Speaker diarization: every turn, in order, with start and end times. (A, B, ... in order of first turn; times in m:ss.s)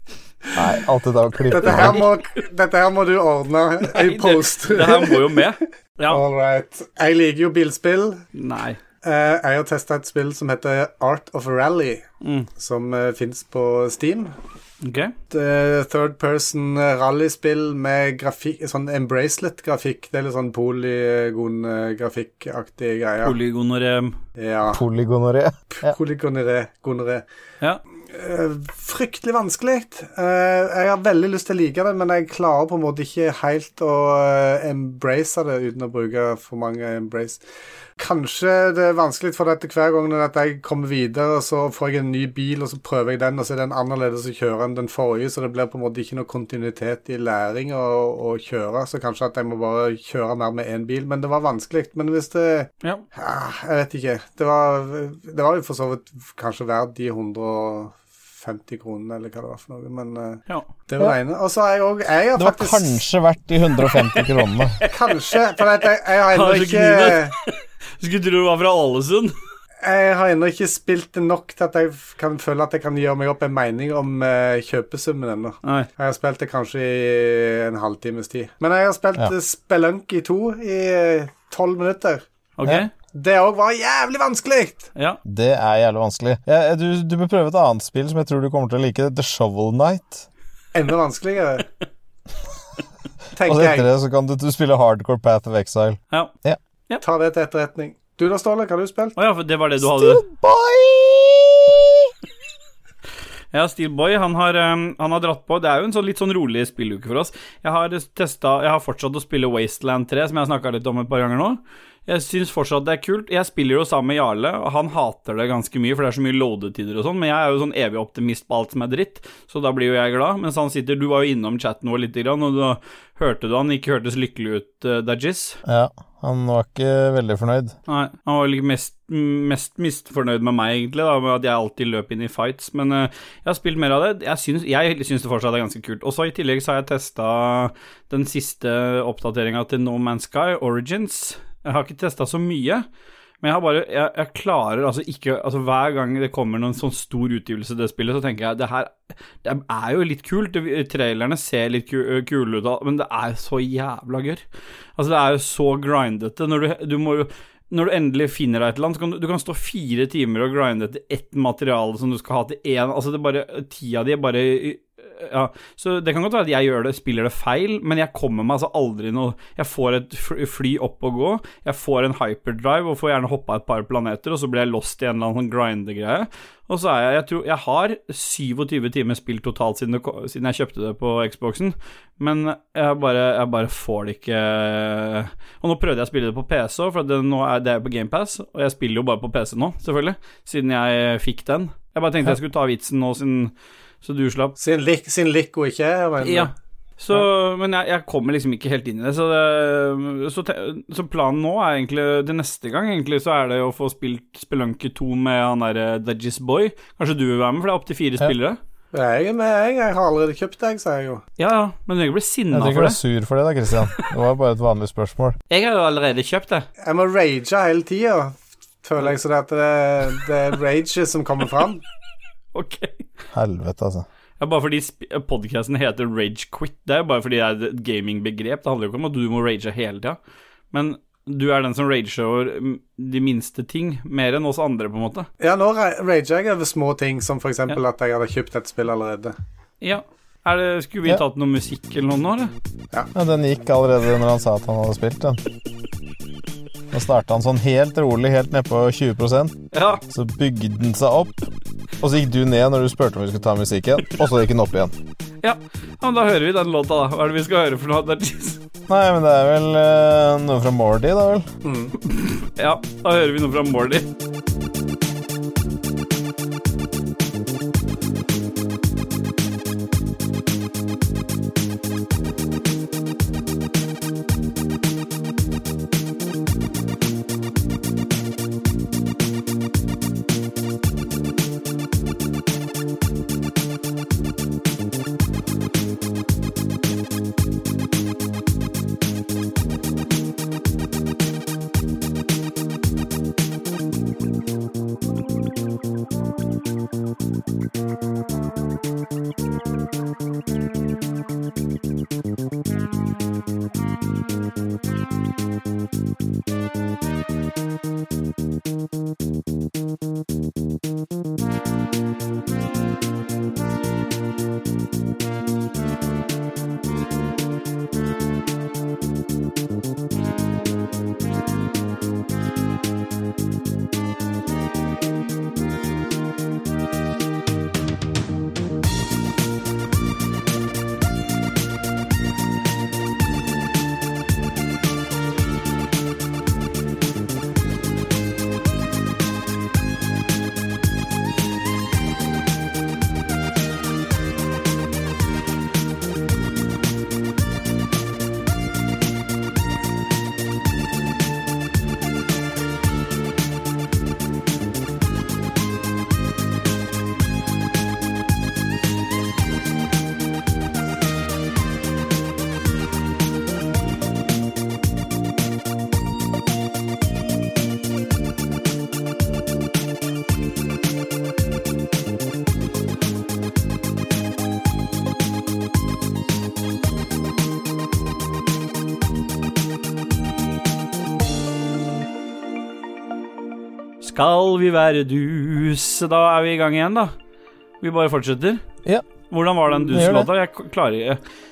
0:00.5-0:02.0 A
0:01.5-0:05.5 B
0:01.6-0:02.1 C
0:03.8-0:06.2 C
0:06.1-0:08.2 B
0:08.3-0:08.8 C
0:09.0-0:12.0 B
0:12.2-0:12.5 C
0:12.6-0:14.3 B
0:14.8-0:15.1 C
0:15.3-0:23.4 B
0:23.2-0:24.2 C
0:24.4-0:24.8 B
0:24.7-0:25.9 A
0:25.7-0:27.2 B
0:28.1-0:37.4 B
0:38.0-1:03.0 B
1:02.4-1:04.8 A
1:04.8-1:05.3 C
1:04.8-1:07.3 B
1:06.3-1:09.3 C
1:09.8-1:22.2 B
1:22.6-1:22.9 C
1:23.1-1:24.9 B
1:25.2-1:30.2 A
1:30.7-1:31.6 B
1:33.3-1:33.9 B
1:33.4-1:36.6 A
1:37.0-1:39.2 B
1:39.2-1:40.2 C
1:39.8-1:42.1 A
1:43.5-2:05.6 C
2:05.6-2:07.8 A
2:07.9-2:22.8 C
2:23.4-2:34.4 C
2:35.0-3:14.5 C
3:14.6-3:16.5 B
3:16.2-3:28.6 C
3:28.9-3:31.2 B
3:31.4-3:33.0 C
3:32.5-3:35.4 A
3:35.5-3:36.6 C
3:36.8-3:41.8 B
3:42.5-3:43.1 C
3:43.3-3:44.0 A
3:44.4-3:50.2 C
3:50.7-3:55.3 C
3:55.4-3:59.3 B
3:59.8-4:02.5 C
4:03.1-4:05.4 A
4:06.9-4:14.9 A
4:09.7-4:10.0 C
4:15.4-4:18.6 C
4:18.9-4:21.5 A
4:21.6-4:21.9 B
4:22.0-4:24.1 C
6:24.0-6:27.1 C
6:27.8-6:28.6 C
6:29.3-6:31.2 C
6:29.9-6:30.3 A